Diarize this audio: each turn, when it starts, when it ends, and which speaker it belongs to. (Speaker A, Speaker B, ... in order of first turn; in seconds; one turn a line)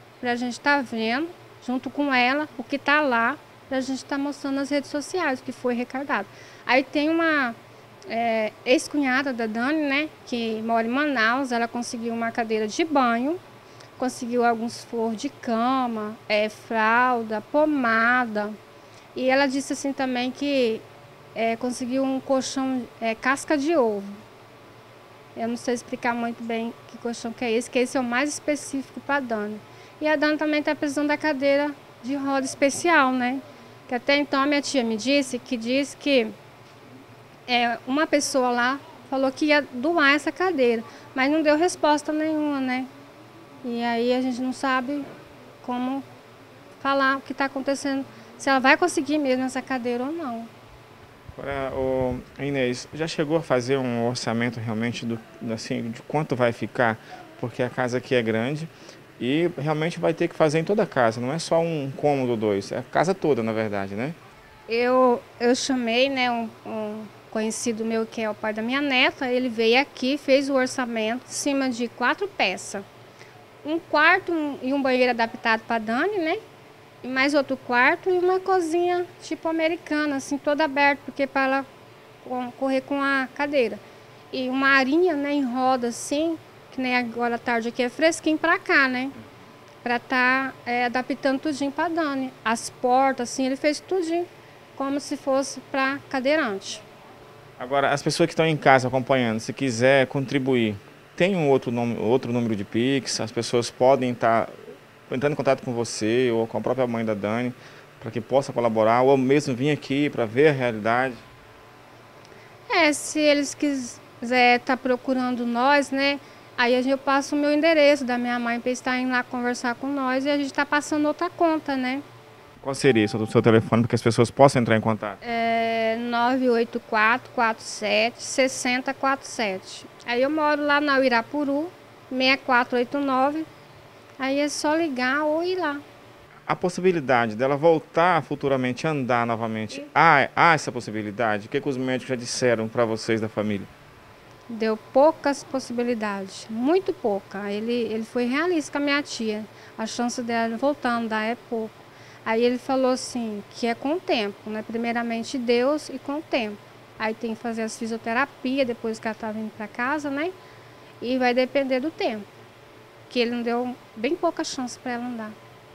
Speaker A: 0.2-7.6
Speaker A: 8.1-13.4
Speaker A: 14.0-18.6
Speaker A: 19.1-24.1
Speaker A: 25.3-36.3
Speaker A: 37.5-42.9
Speaker A: 43.6-45.0
Speaker A: 45.6-46.0
Speaker A: 46.8-50.5
Speaker B: 51.4-64.2
Speaker A: 64.7-72.8
Speaker A: 73.6-76.4
Speaker A: 77.0-81.7
Speaker A: 82.2-89.2
Speaker A: 89.8-96.8
Speaker B: 97.6-104.5
Speaker B: 105.1-111.2
Speaker A: 112.7-122.0
Speaker B: 122.6-125.2
Speaker A: 125.2-133.5
Speaker A: 134.2-135.8
Speaker B: 136.5-143.7
Speaker A: 144.5-160.3
Speaker A: 161.0-162.3
Speaker A: 163.1-165.3